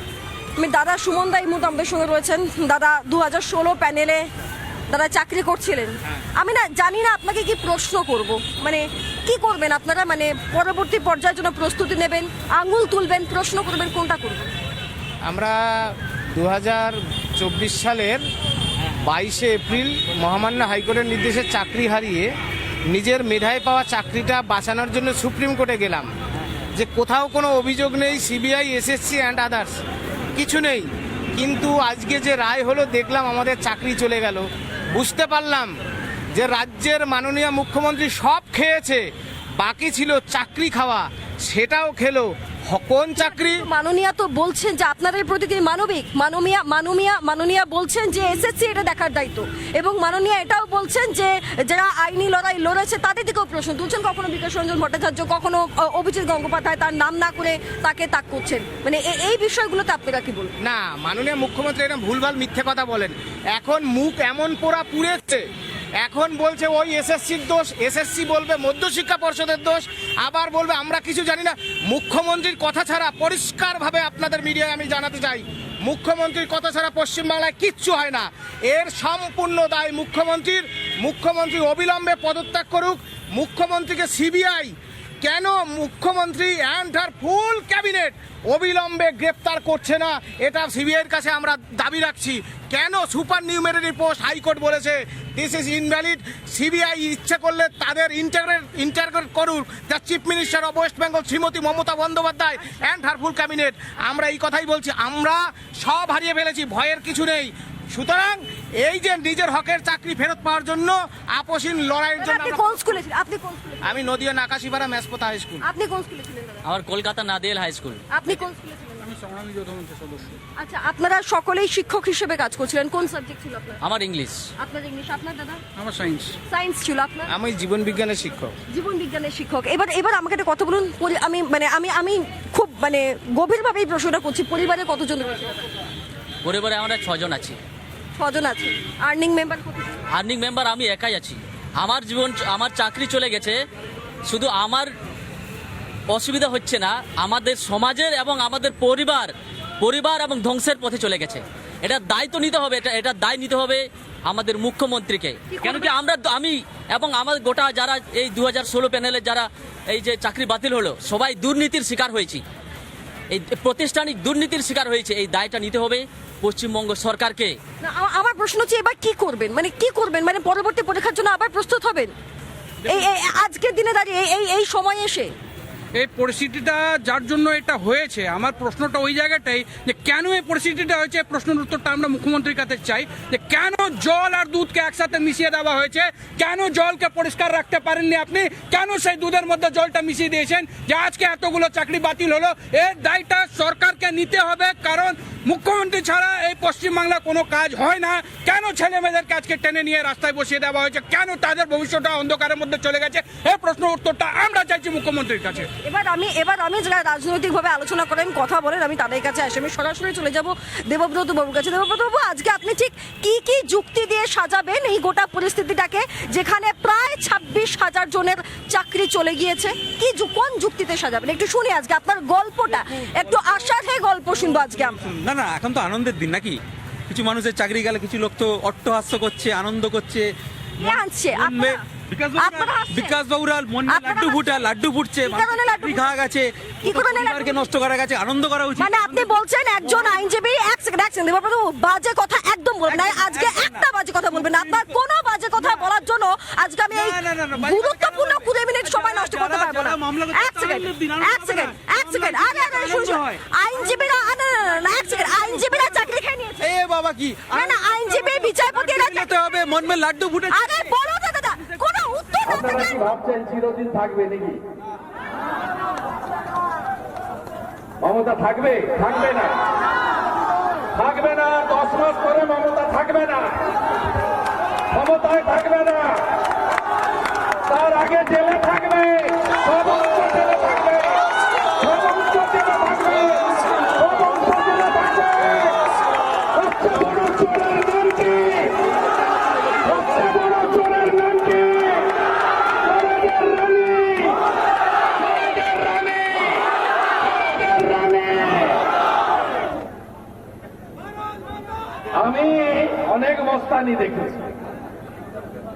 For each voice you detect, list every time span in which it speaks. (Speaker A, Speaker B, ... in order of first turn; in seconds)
Speaker A: 0.6-4.3, 4.9-14.5, 43.2-60.5, 112.2-114.1, 115.6-116.7, 118.1-119.1, 120.6-123.8, 124.6-125.6, 126.5-127.3, 128.7-135.6, 138.2-139.9, 155.5-155.9, 167.8-172.1, 172.9-175.3, 205.8-225.0, 230.8-233.2, 233.9-234.5, 235.2-236.2, 236.8-237.5, 238.8-256.8, 257.5-259.3, 260.5-263.0
Speaker B: 15.2-18.2, 18.9-22.3, 22.9-26.1, 26.8-29.8, 30.4-35.7, 36.4-39.0, 39.6-43.6, 60.6-65.5, 66.0-113.0, 113.8-115.7, 127.3-128.6
Speaker C: 116.7-118.0, 123.8-124.4, 136.4-137.6, 140.1-143.6, 144.3-144.9, 146.1-162.4, 163.3-167.6
Speaker D: 119.0-120.4, 125.8-126.4, 175.9-205.7
Speaker E: 225.1-239.3, 242.9-244.9, 246.9-253.4, 256.6-260.8
Speaker F: 262.5-264.6, 268.0-269.6, 270.9-273.6, 274.9-276.3, 277.7-281.2, 281.8-285.8, 286.5-288.8, 289.8-292.1, 292.9-294.4, 295.2-296.6, 297.2-298.8, 302.1-304.6